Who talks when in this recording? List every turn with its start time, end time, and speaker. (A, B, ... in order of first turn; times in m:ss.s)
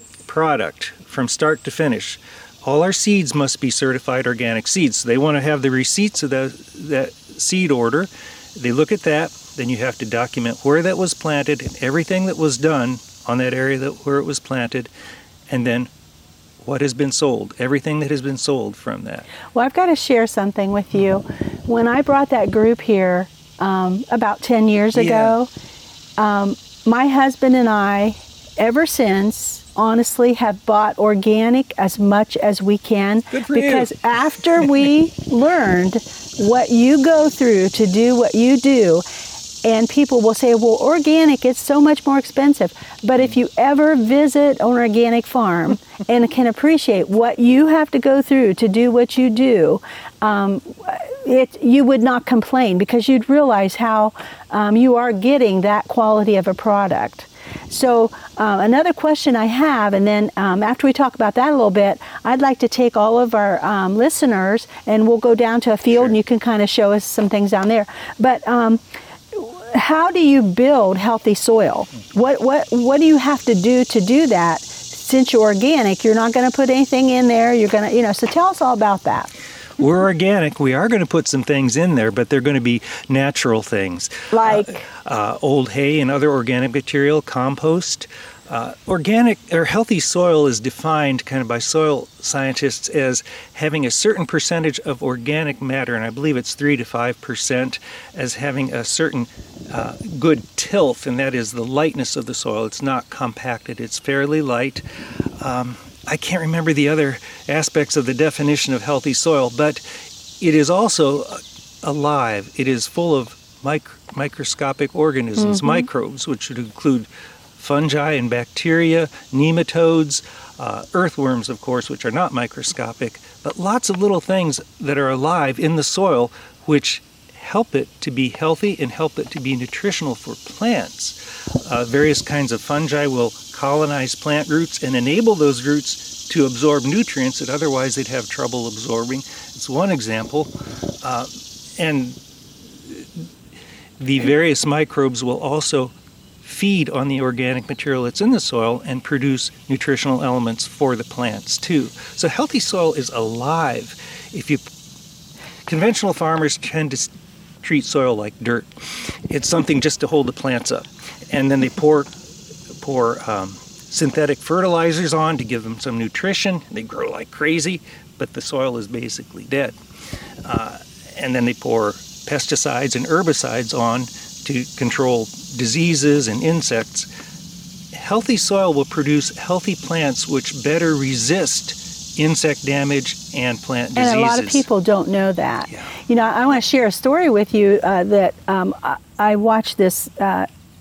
0:00.2-0:14.9 A
0:15.5-0:15.9 A
0:16.6-0:19.3 A
0:19.5-0:25.5 B
0:24.9-0:25.4 A
0:26.2-0:39.0 B
0:33.3-0:33.9 A
0:39.6-1:19.3 B
1:19.8-1:49.8 A
1:24.3-1:24.8 B
1:50.4-2:22.2 A
1:55.4-1:55.8 B
2:22.8-2:23.3 A
2:24.0-2:34.7 A
2:35.7-2:42.1 A
2:42.8-2:49.8 A
2:50.4-2:57.1 A
2:57.9-3:04.7 A
3:04.0-3:10.5 B